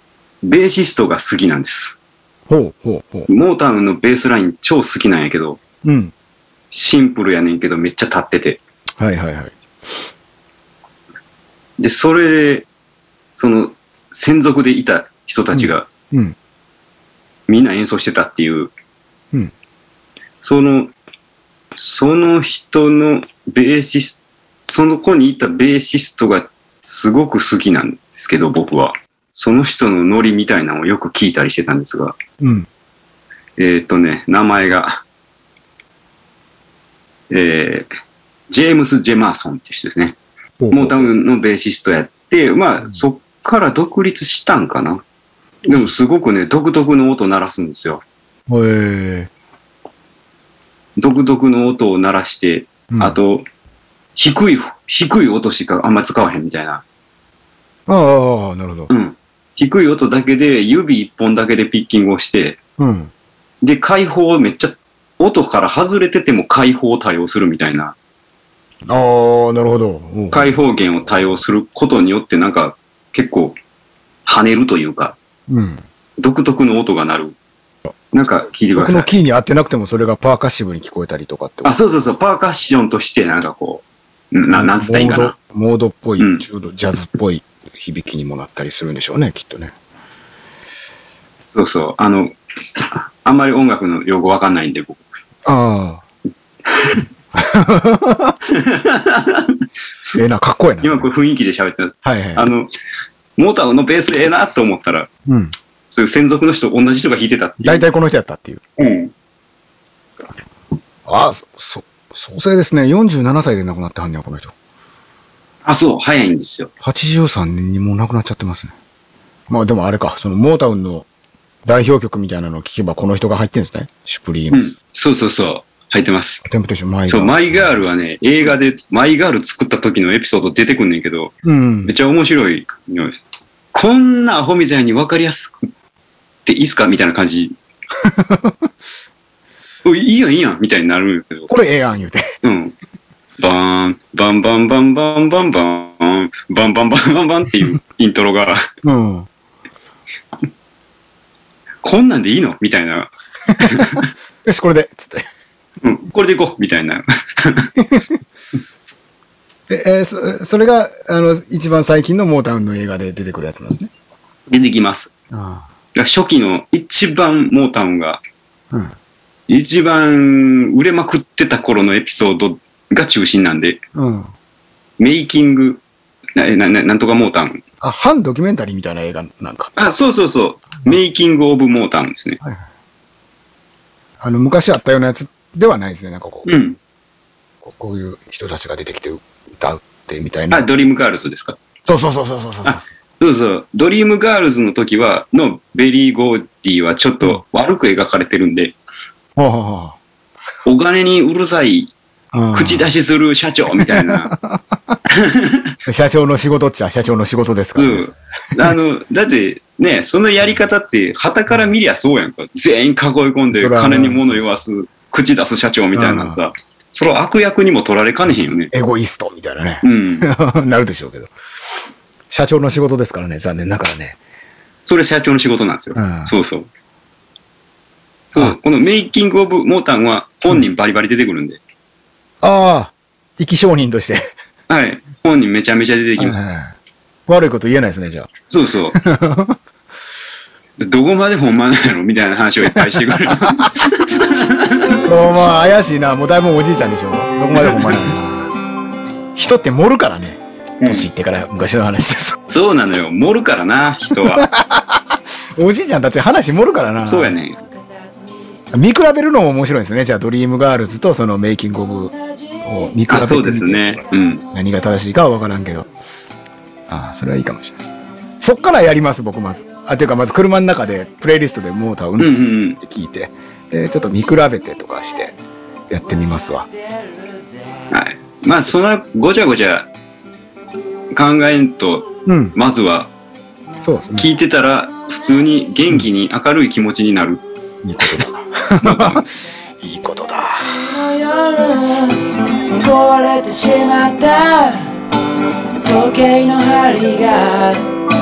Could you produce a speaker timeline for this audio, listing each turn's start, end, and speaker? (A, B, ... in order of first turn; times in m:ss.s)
0:00.4-0:02.0 A
0:02.5-0:03.3 B
0:03.3-0:05.6 A
0:05.8-0:06.1 B
0:06.7-0:08.6 A
0:09.0-0:09.5 B
0:11.8-0:12.7 A
0:13.4-0:15.9 A
0:15.5-0:16.4 B
0:17.5-0:18.7 A
0:20.4-0:20.9 A
0:21.8-0:32.2 A
0:32.4-0:32.7 B
0:33.6-0:35.0 A
0:37.3-0:37.9 A
0:38.5-0:40.2 A
0:40.6-0:41.1 B
0:40.7-0:45.0 A
0:45.6-0:48.0 A
0:48.5-0:49.3 B
0:51.0-0:53.5 A
0:52.9-0:53.2 B
0:54.2-0:56.8 A
0:57.9-0:58.9 B
0:58.9-1:02.6 A
1:02.8-1:03.1 B
1:03.6-1:08.0 A
1:08.9-1:10.6 B
1:10.3-1:13.6 A
1:14.3-1:15.2 A
1:15.5-1:15.8 B
1:16.2-1:17.4 A
1:18.1-1:19.1 A
1:18.8-1:21.8 B
1:21.6-1:25.3 A
1:24.5-1:29.8 B
1:26.2-1:26.4 A
1:31.5-1:35.1 A
1:35.4-1:36.0 B
1:37.3-1:38.4 B
1:38.5-1:39.6 A
1:40.1-1:41.1 B
1:40.8-1:42.7 A
1:42.0-1:42.4 B
1:43.4-1:45.1 A
1:45.3-1:45.5 B
1:45.9-1:47.8 A
1:47.6-1:48.6 B
1:48.8-1:49.1 A
1:51.1-1:54.5 B
1:55.6-1:56.7 A
1:56.8-1:58.7 B
1:59.5-2:01.1 B
2:01.6-2:04.7 B
2:04.5-2:06.4 A
2:06.4-2:07.7 B
2:07.1-2:11.3 A
2:11.4-2:11.9 B
2:11.8-2:13.2 A
2:13.7-2:15.7 A
2:16.5-2:17.6 A
2:18.0-2:18.6 B
2:19.8-2:21.5 A
2:21.5-2:22.3 B
2:22.4-2:22.8 A
2:23.4-2:28.7 A
2:28.8-2:29.3 B
2:31.8-2:34.1 A
2:33.6-2:35.3 B
2:35.8-2:37.7 A
2:39.7-2:43.9 B
2:44.5-2:45.1 A
2:45.3-2:45.7 B
2:46.0-2:48.2 A
2:49.5-2:53.8 A
2:54.0-2:54.3 B
2:55.0-2:55.8 A
2:56.4-2:57.6 A
2:57.8-2:59.7 B
2:59.8-3:02.4 A
3:04.2-3:06.5 B
3:06.4-3:06.8 A
3:07.6-3:10.6 B
3:10.5-3:11.6 A
3:11.9-3:12.8 B
3:12.6-3:18.8 A
3:19.4-3:20.0 B
3:20.6-3:21.9 A
3:22.3-3:22.9 B
3:22.5-3:24.3 A
3:23.8-3:25.0 B
3:25.1-3:25.7 A
3:25.9-3:28.2 B
3:27.8-3:38.7 A
3:33.5-3:34.6 B
3:35.9-3:36.4 B
3:38.7-3:41.3 B
3:39.8-3:40.3 A
3:42.3-3:44.2 B
3:44.8-3:46.7 A
3:46.0-3:46.3 B
3:48.3-3:51.6 A
3:52.4-3:54.3 B
3:54.7-3:56.4 A
3:56.2-3:56.7 B
3:57.3-3:58.3 B
3:58.5-3:59.0 A
3:59.0-3:59.6 B
4:00.8-4:05.1 A
4:02.7-4:03.7 B
4:05.0-4:08.5 B
4:07.6-4:08.1 A
4:09.4-4:12.4 B
4:10.8-4:11.1 A
4:12.5-4:14.5 A
4:14.2-4:17.3 B
4:17.0-4:17.6 A
4:18.7-4:22.1 B
4:22.6-4:24.0 B
4:23.1-4:24.4 A
4:24.5-4:25.9 B
4:26.9-4:27.9 B
4:28.4-4:35.4 B
4:32.2-4:32.8 A
4:35.9-4:36.7 B
4:37.9-4:39.9 A
4:41.1-4:43.1 A
4:42.3-4:42.6 B
4:43.8-4:44.3 B
4:44.1-4:47.4 A
4:47.8-4:49.3 B
4:48.8-4:49.3 A
4:49.8-4:50.8 B
4:50.8-4:52.2 C
4:52.7-4:54.9 C
4:55.8-4:57.8 C